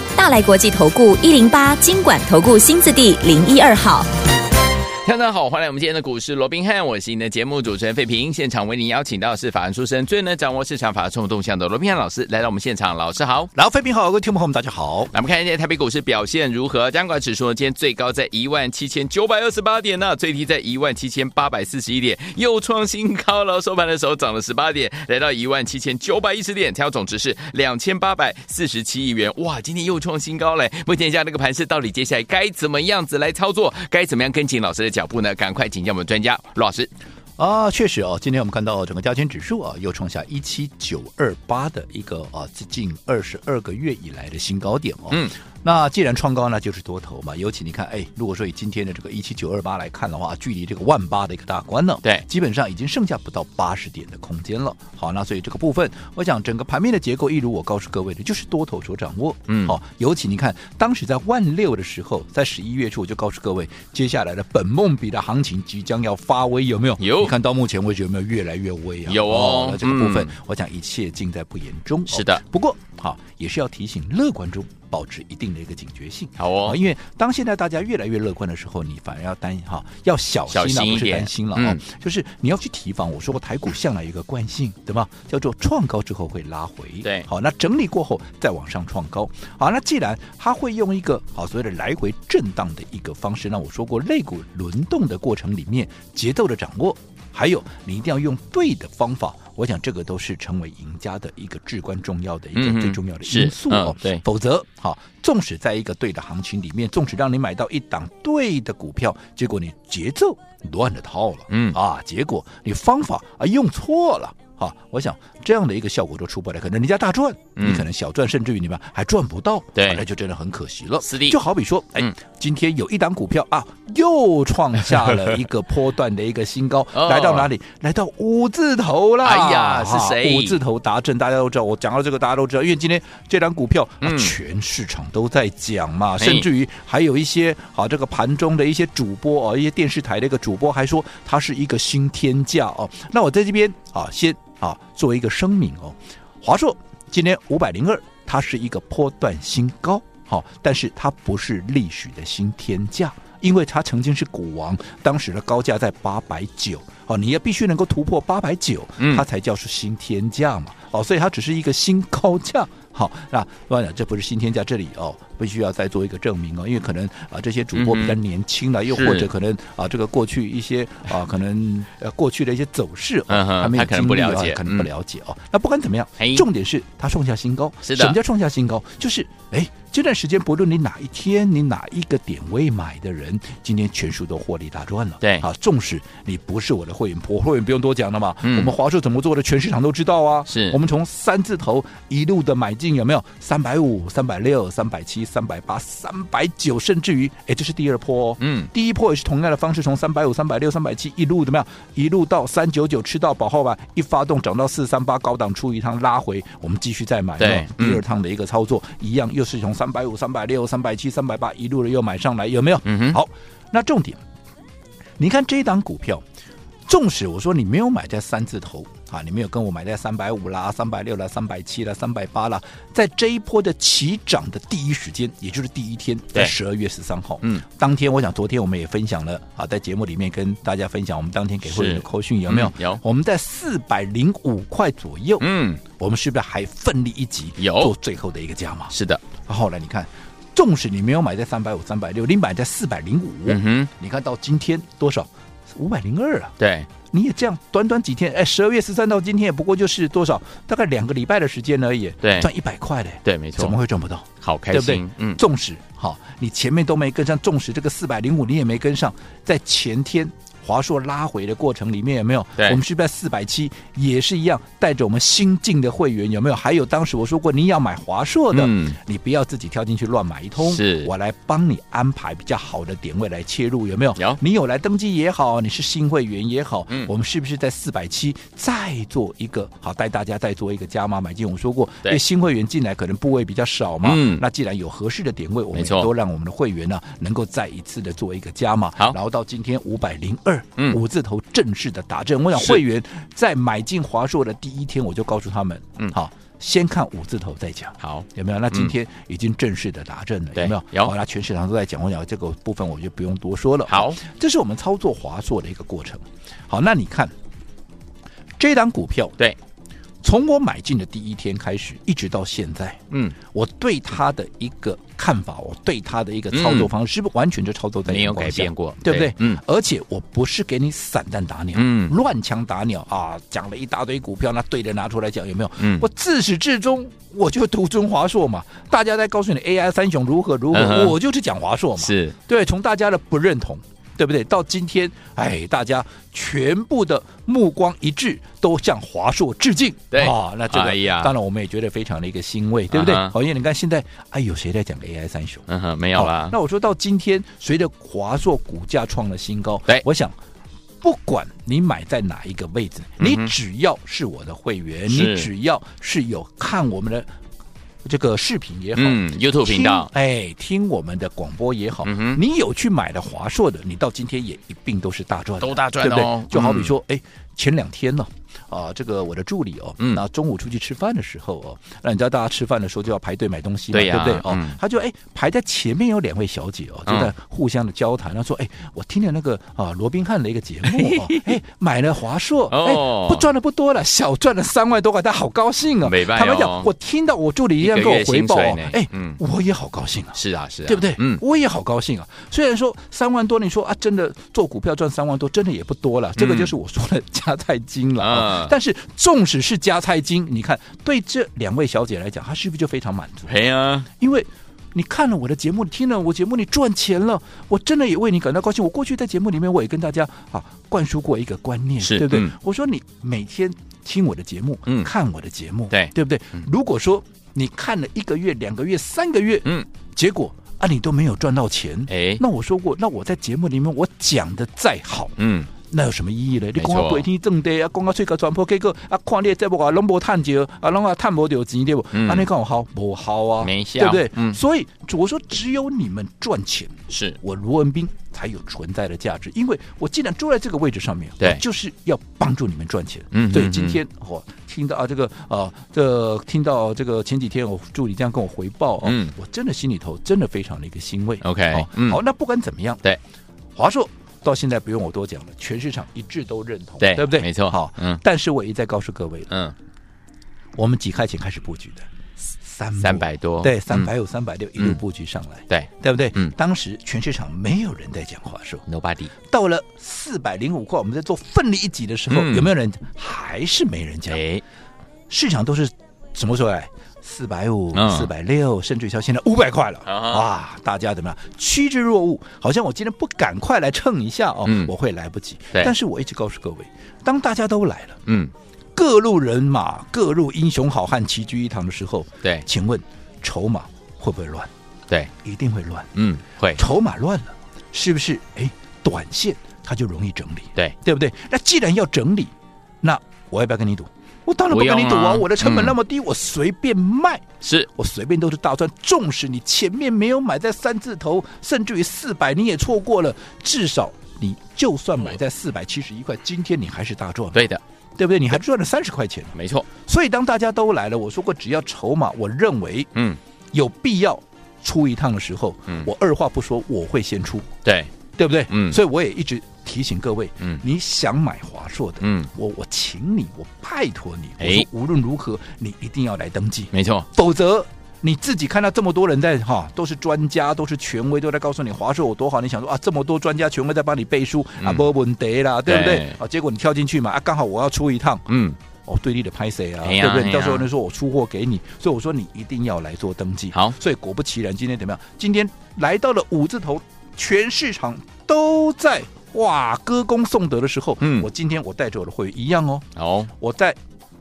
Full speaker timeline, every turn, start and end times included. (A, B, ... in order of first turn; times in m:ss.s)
0:00.2-0:03.5 A
0:05.0-0:13.5 B
0:13.6-0:15.1 C
0:15.1-0:36.9 B
0:37.4-3:34.2 C
0:59.5-0:59.8 B
1:07.0-1:07.3 B
1:09.1-1:10.3 B
1:12.1-1:12.4 B
1:16.4-1:16.8 B
1:20.5-1:21.8 B
1:42.6-1:44.2 B
1:51.5-1:51.8 B
1:57.6-1:57.9 B
1:59.8-2:00.0 B
2:01.0-2:01.4 B
2:06.9-2:07.5 B
2:09.2-2:10.6 B
2:14.0-2:14.4 B
2:16.2-2:16.5 B
2:39.0-2:39.3 B
2:47.7-2:48.2 B
2:48.9-2:49.3 B
2:53.3-2:54.9 B
2:56.2-2:56.5 B
2:57.8-2:58.2 B
3:08.4-3:08.7 B
3:10.5-3:10.8 B
3:18.4-3:18.7 B
3:27.4-3:28.0 B
3:32.8-3:33.2 B
3:35.2-3:36.2 C
3:36.9-3:58.9 C
3:51.7-3:53.0 B
3:55.4-3:55.8 B
3:57.6-3:57.9 B
3:58.9-3:59.2 B
3:59.5-4:06.5 C
4:03.5-4:03.9 B
4:06.6-4:06.9 B
4:07.1-5:07.3 C
4:12.2-4:12.5 B
4:13.2-4:13.8 B
4:14.4-4:15.4 B
4:28.5-4:29.0 B
4:30.6-4:31.1 B
4:44.0-4:44.4 B
4:45.7-4:46.1 B
4:52.6-4:52.8 B
4:58.0-4:58.9 B
5:00.6-5:01.1 B
5:03.9-5:04.2 B
5:08.6-5:09.4 C
5:10.2-5:50.4 C
5:16.5-5:16.9 B
5:18.1-5:19.6 B
5:21.8-5:22.2 B
5:25.8-5:26.1 B
5:30.7-5:31.2 B
5:32.0-5:32.4 B
5:40.1-5:41.3 B
5:42.9-5:43.4 B
5:45.7-5:46.6 B
5:51.0-5:57.3 C
5:53.2-5:53.5 B
5:55.1-5:55.5 B
5:58.0-6:43.5 C
5:59.0-6:00.1 B
6:02.0-6:02.4 B
6:05.6-6:06.9 B
6:13.9-6:14.8 B
6:17.1-6:17.3 B
6:20.9-6:21.6 B
6:22.7-6:23.5 B
6:26.0-6:26.9 B
6:27.8-6:29.4 B
6:30.4-6:31.4 B
6:36.4-6:36.7 B
6:38.2-6:38.7 B
6:43.5-6:44.1 B
6:44.2-7:33.0 C
6:52.0-6:52.5 B
7:02.1-7:02.4 B
7:05.4-7:05.7 B
7:06.8-7:07.2 B
7:12.1-7:12.5 B
7:13.6-7:14.6 B
7:17.1-7:17.4 B
7:23.3-7:24.0 B
7:29.0-7:29.3 B
7:31.4-7:32.2 B
7:33.8-7:39.5 C
7:37.0-7:38.2 B
7:40.8-7:42.1 C
7:42.6-7:48.8 C
7:43.0-7:44.1 B
7:45.7-7:46.5 B
7:48.9-7:49.3 B
7:49.5-7:54.4 C
7:52.3-7:52.7 B
7:54.3-7:54.6 B
7:55.3-8:08.2 C
7:57.9-7:58.3 B
8:00.1-8:00.4 B
8:04.6-8:04.9 B
8:08.3-8:08.5 B
8:09.0-8:14.7 C
8:15.4-8:16.1 C
8:16.2-8:16.8 B
8:16.8-8:43.1 C
8:24.7-8:26.0 B
8:27.6-8:27.9 B
8:37.5-8:37.8 B
8:39.6-8:39.9 B
8:43.7-8:47.7 C
8:47.8-8:48.1 B
8:48.4-9:08.5 C
8:48.7-8:49.0 B
8:52.2-8:52.5 B
8:54.6-8:54.9 B
8:56.9-8:57.3 B
9:05.9-9:06.4 B
9:08.5-9:08.8 B
9:09.0-9:23.1 C
9:10.0-9:10.9 B
9:21.2-9:21.5 B
9:23.2-9:23.5 B
9:23.6-9:24.0 C